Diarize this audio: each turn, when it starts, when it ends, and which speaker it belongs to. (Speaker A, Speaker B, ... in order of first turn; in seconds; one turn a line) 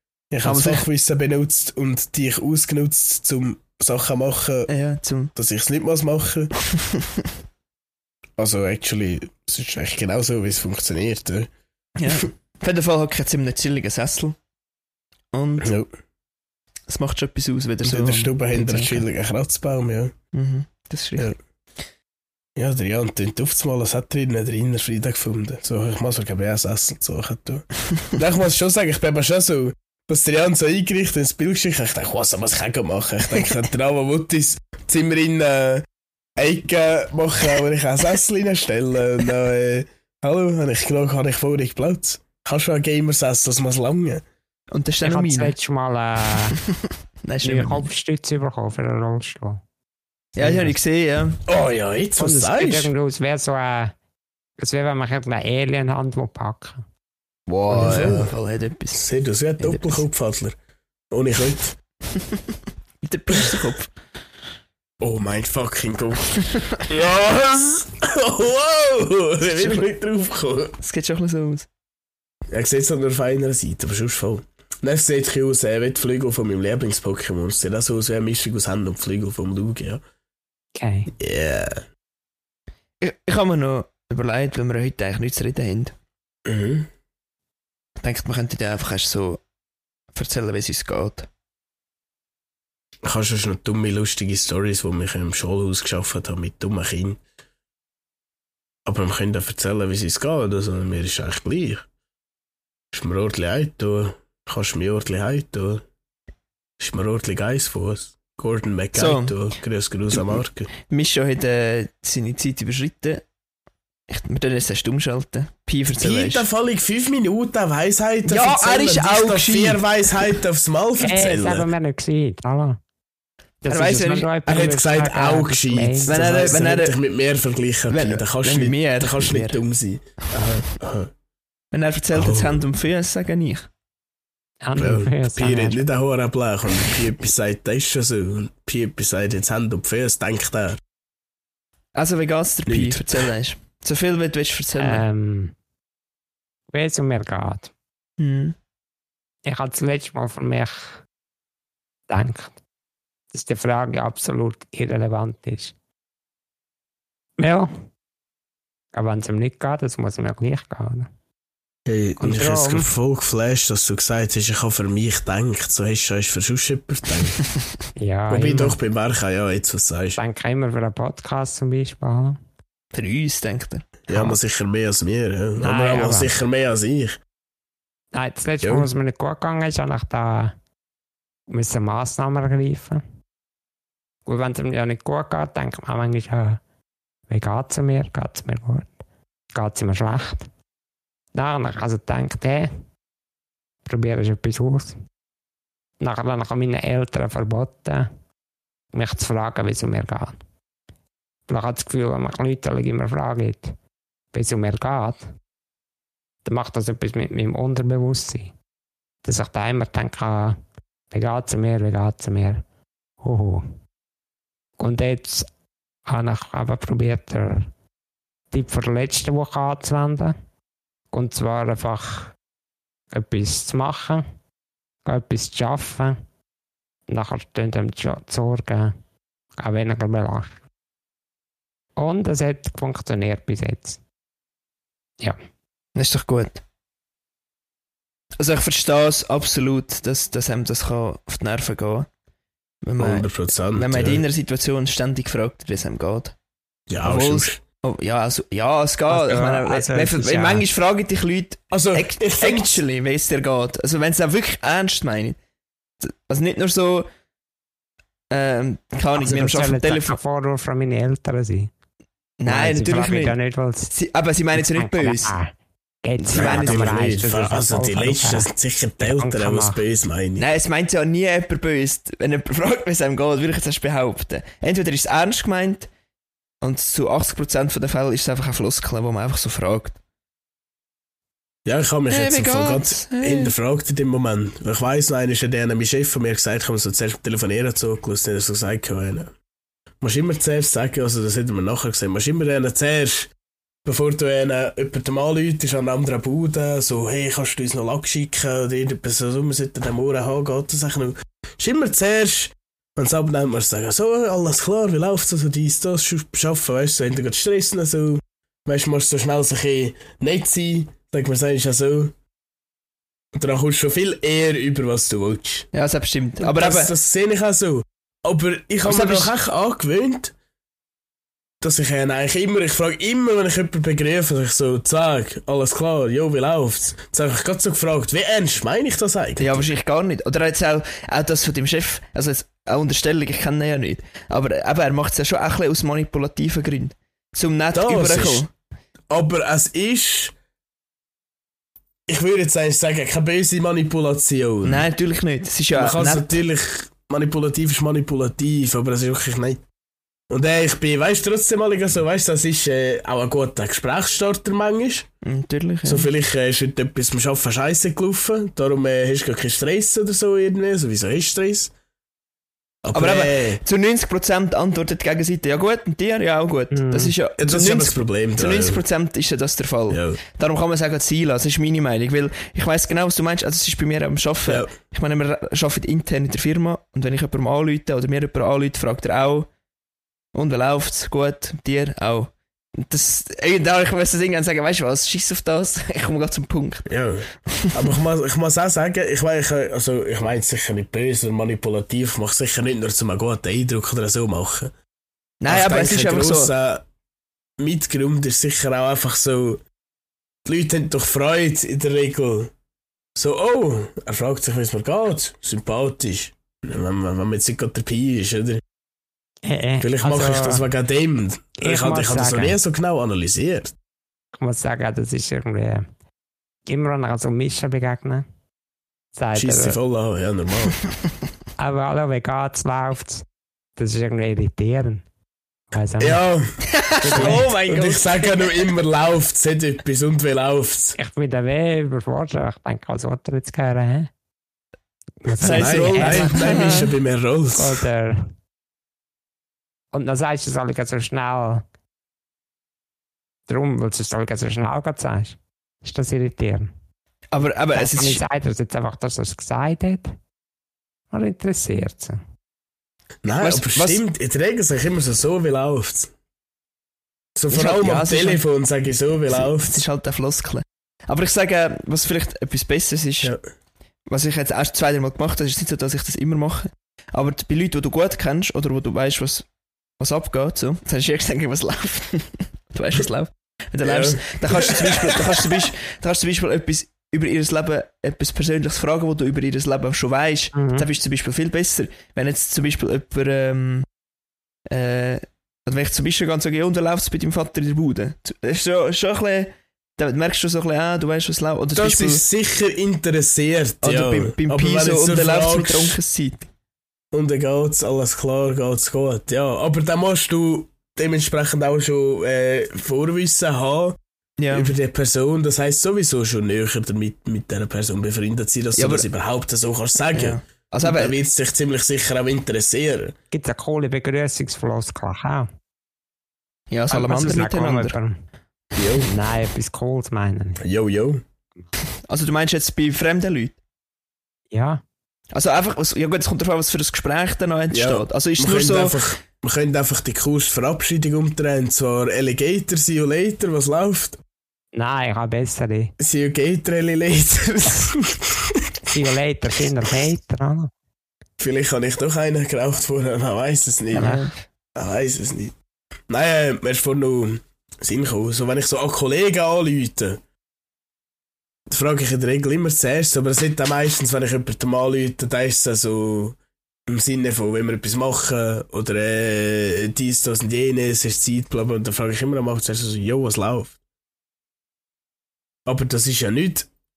Speaker A: 0.3-4.7
Speaker B: 0.4-0.8
Speaker B: 4.7-5.3
Speaker A: 5.3-6.5
Speaker B: 6.6-7.3
Speaker A: 8.4-11.5
Speaker B: 12.0-14.4
Speaker B: 15.3-15.7
Speaker A: 15.6-15.9
Speaker B: 16.9-19.1
Speaker A: 17.8-20.1
Speaker B: 20.3-21.3
Speaker A: 22.6-35.8
Speaker A: 36.4-44.2
Speaker B: 44.7-45.6
Speaker C: 45.0-46.6
Speaker B: 46.5-47.9
Speaker C: 47.4-49.6
Speaker B: 50.4-51.4
Speaker C: 50.4-50.8
Speaker A: 51.5-52.9
Speaker C: 52.2-53.9
Speaker C: 54.6-56.8
Speaker B: 57.5-59.1
Speaker A: 57.7-58.3
Speaker A: 58.9-60.6
Speaker B: 59.6-60.0
Speaker A: 61.1-61.8
Speaker B: 62.1-62.4
Speaker B: 63.0-63.9
Speaker A: 63.3-63.6
Speaker A: 65.0-66.3
Speaker B: 66.4-66.8
Speaker A: 66.8-70.7
Speaker B: 69.5-69.9
Speaker B: 70.8-71.7
Speaker A: 72.5-80.0
Speaker C: 80.8-81.1
Speaker A: 81.2-81.8
Speaker B: 83.0-85.9
Speaker A: 86.5-86.9
Speaker B: 88.0-89.4
Speaker B: 90.1-91.3
Speaker A: 93.0-97.2
Speaker A: 98.9-101.9
Speaker A: 102.9-105.8
Speaker A: 106.8-110.7
Speaker B: 109.0-109.4
Speaker B: 110.1-113.2
Speaker B: 114.1-116.5
Speaker A: 116.0-121.7
Speaker B: 118.3-120.4
Speaker C: 121.0-122.8
Speaker C: 123.6-126.3
Speaker B: 123.7-124.3
Speaker A: 124.5-131.1
Speaker B: 126.1-127.0
Speaker B: 127.9-129.6
Speaker B: 131.7-133.7
Speaker A: 132.1-132.7
Speaker C: 134.6-135.8
Speaker A: 134.8-140.8
Speaker B: 141.9-145.1
Speaker A: 142.7-143.3
Speaker C: 144.8-145.5
Speaker C: 146.7-147.7
Speaker B: 148.2-148.6
Speaker C: 149.5-151.0
Speaker C: 152.1-152.6
Speaker C: 153.3-155.7
Speaker C: 157.4-157.7
Speaker C: 158.9-161.1
Speaker A: 161.9-167.4
Speaker C: 162.2-162.9
Speaker C: 168.0-168.8
Speaker A: 168.3-170.2
Speaker C: 170.2-172.4
Speaker B: 172.9-174.0
Speaker A: 174.1-177.2
Speaker C: 174.1-174.4
Speaker C: 175.6-176.3
Speaker C: 178.1-180.5
Speaker A: 178.6-178.9
Speaker C: 181.5-183.0
Speaker C: 184.3-186.6
Speaker C: 187.3-188.9
Speaker C: 189.5-190.5
Speaker C: 191.3-192.7
Speaker C: 193.8-194.9
Speaker C: 196.0-198.1
Speaker C: 198.9-200.4
Speaker C: 201.5-203.7
Speaker C: 204.3-205.2
Speaker C: 206.4-208.5
Speaker C: 209.2-210.6
Speaker C: 211.1-212.6
Speaker C: 213.2-213.6
Speaker C: 214.8-215.5
Speaker C: 216.1-217.7
Speaker C: 218.5-220.3
Speaker C: 221.1-222.3
Speaker C: 223.1-224.2
Speaker C: 225.1-226.2
Speaker C: 227.1-228.9
Speaker C: 229.6-230.5
Speaker C: 232.0-234.0
Speaker B: 236.0-236.6
Speaker B: 238.4-242.1
Speaker B: 242.8-246.3
Speaker A: 243.0-244.2
Speaker A: 246.9-247.6
Speaker B: 247.0-255.4
Speaker C: 249.1-250.7
Speaker A: 251.7-252.8
Speaker B: 256.0-257.1
Speaker B: 258.3-260.2
Speaker C: 259.1-261.7
Speaker B: 262.4-263.4
Speaker C: 262.5-263.9
Speaker B: 263.9-265.4
Speaker C: 264.5-269.8
Speaker B: 266.2-267.0
Speaker A: 266.3-270.5
Speaker B: 270.4-275.9
Speaker B: 276.6-280.0
Speaker A: 281.7-289.3
Speaker B: 282.1-283.5
Speaker A: 290.0-293.3
Speaker A: 293.9-312.1
Speaker A: 313.4-315.7
Speaker B: 315.7-316.9
Speaker A: 316.4-320.3
Speaker B: 318.9-319.3
Speaker A: 321.6-329.7
Speaker B: 329.4-338.5
Speaker A: 337.7-338.4
Speaker A: 339.1-340.3
Speaker A: 342.1-344.9
Speaker B: 344.6-346.4
Speaker A: 345.8-349.6
Speaker A: 350.3-355.1
Speaker B: 355.2-356.1
Speaker A: 355.9-361.7
Speaker A: 362.8-363.6
Speaker B: 362.9-379.5
Speaker C: 366.7-367.1
Speaker A: 367.4-368.8
Speaker A: 369.9-370.2
Speaker B: 380.3-386.9
Speaker A: 386.9-394.7
Speaker B: 395.4-396.5
Speaker A: 395.5-396.9
Speaker A: 397.6-399.6
Speaker A: 400.4-402.5
Speaker A: 403.1-408.6
Speaker C: 409.5-410.6
Speaker A: 409.8-413.8
Speaker C: 411.6-412.6
Speaker C: 414.4-415.8
Speaker C: 416.7-418.2
Speaker C: 419.1-419.8
Speaker A: 419.4-420.8
Speaker C: 421.6-423.2
Speaker C: 423.8-425.0
Speaker C: 425.7-426.2
Speaker A: 426.0-431.0
Speaker B: 426.7-428.7
Speaker C: 427.1-427.5
Speaker C: 431.0-434.1
Speaker C: 435.2-436.9
Speaker B: 435.4-436.9
Speaker A: 435.4-437.8
Speaker C: 437.5-438.2
Speaker C: 439.9-441.6
Speaker C: 443.5-446.7
Speaker B: 447.3-448.2
Speaker C: 447.7-450.1
Speaker C: 451.1-452.2
Speaker A: 453.2-456.1
Speaker B: 453.4-454.0
Speaker A: 457.4-459.8
Speaker B: 457.5-458.4
Speaker B: 459.3-463.3
Speaker B: 464.1-469.5
Speaker B: 470.0-483.9
Speaker A: 473.8-475.7
Speaker C: 480.6-480.9
Speaker B: 484.7-492.2
Speaker A: 491.8-496.0
Speaker B: 493.8-496.5
Speaker A: 497.1-504.0
Speaker B: 504.4-504.8
Speaker A: 504.5-513.1
Speaker B: 508.8-509.1
Speaker B: 510.1-511.1
Speaker C: 513.3-515.5
Speaker B: 516.7-518.0
Speaker C: 516.9-518.2
Speaker A: 518.8-519.1
Speaker C: 519.0-520.6
Speaker A: 520.6-521.2
Speaker B: 522.1-523.6
Speaker C: 524.5-524.8
Speaker B: 525.3-529.1
Speaker A: 527.7-534.2
Speaker C: 534.8-535.9
Speaker A: 536.0-538.6
Speaker C: 538.9-540.7
Speaker A: 541.4-544.1
Speaker B: 543.9-544.4
Speaker C: 544.0-544.3
Speaker A: 544.8-545.5
Speaker A: 546.1-550.2
Speaker A: 551.7-556.4
Speaker A: 556.9-563.8
Speaker A: 565.7-566.7